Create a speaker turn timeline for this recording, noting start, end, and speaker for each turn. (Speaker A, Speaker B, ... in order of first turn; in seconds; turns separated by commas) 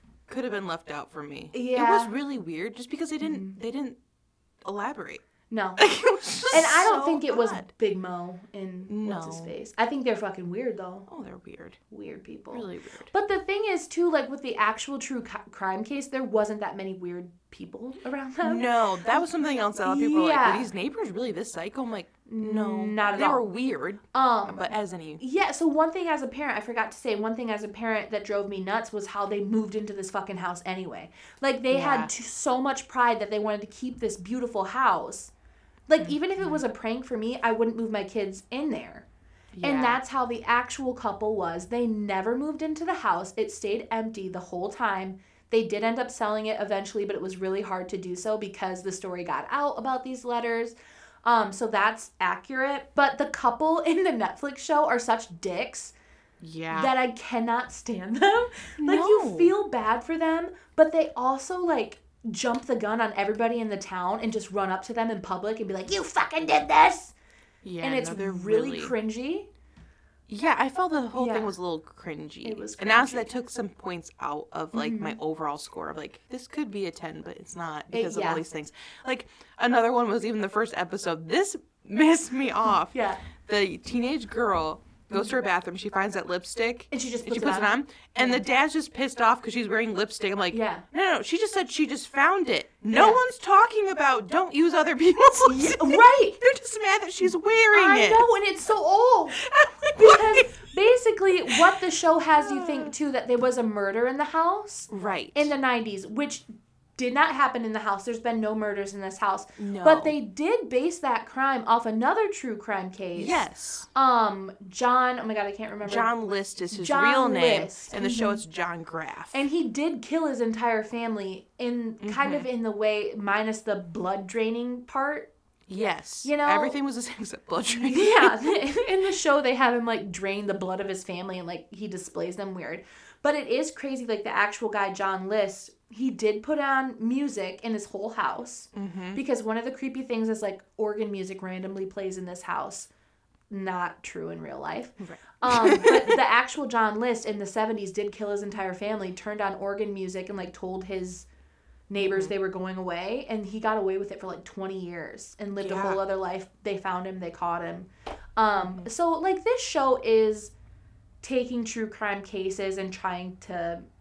Speaker A: 0.3-4.0, Speaker B: 1.5-2.1, Speaker B: 3.2-3.6, Speaker A: 4.6-5.2, Speaker B: 5.5-5.9, Speaker A: 5.8-7.7, Speaker B: 6.5-11.1, Speaker A: 8.9-9.5, Speaker A: 11.1-11.8, Speaker B: 11.9-19.2, Speaker A: 12.5-13.1, Speaker A: 18.4-25.2, Speaker B: 19.8-20.7, Speaker B: 22.3-23.5, Speaker B: 24.1-35.3, Speaker A: 31.7-32.1, Speaker B: 35.9-39.1, Speaker A: 36.0-36.6, Speaker A: 39.5-40.0, Speaker B: 39.6-55.9, Speaker A: 56.4-56.9, Speaker B: 56.7-67.1, Speaker A: 58.8-59.6, Speaker A: 67.6-69.0, Speaker B: 67.8-69.5, Speaker A: 70.3-98.3, Speaker B: 71.2-71.5, Speaker B: 72.4-73.3, Speaker B: 74.7-75.2, Speaker B: 77.9-78.4, Speaker B: 82.9-83.2, Speaker B: 86.9-88.4, Speaker B: 90.5-90.8, Speaker B: 92.9-93.2, Speaker B: 95.4-96.4, Speaker B: 97.3-99.4, Speaker A: 99.3-100.5, Speaker B: 100.0-116.1, Speaker A: 102.3-102.9, Speaker A: 104.9-105.5, Speaker A: 109.6-110.2, Speaker A: 113.2-113.9, Speaker A: 115.8-119.4, Speaker B: 116.7-118.4, Speaker B: 119.3-125.3, Speaker A: 122.0-122.5, Speaker A: 125.7-128.5, Speaker B: 126.2-126.8, Speaker B: 127.6-142.9, Speaker A: 138.7-139.2, Speaker B: 143.5-151.3, Speaker A: 145.0-146.2, Speaker B: 151.9-160.5, Speaker A: 152.0-152.3, Speaker A: 155.6-156.0, Speaker A: 158.5-158.9, Speaker B: 161.2-163.9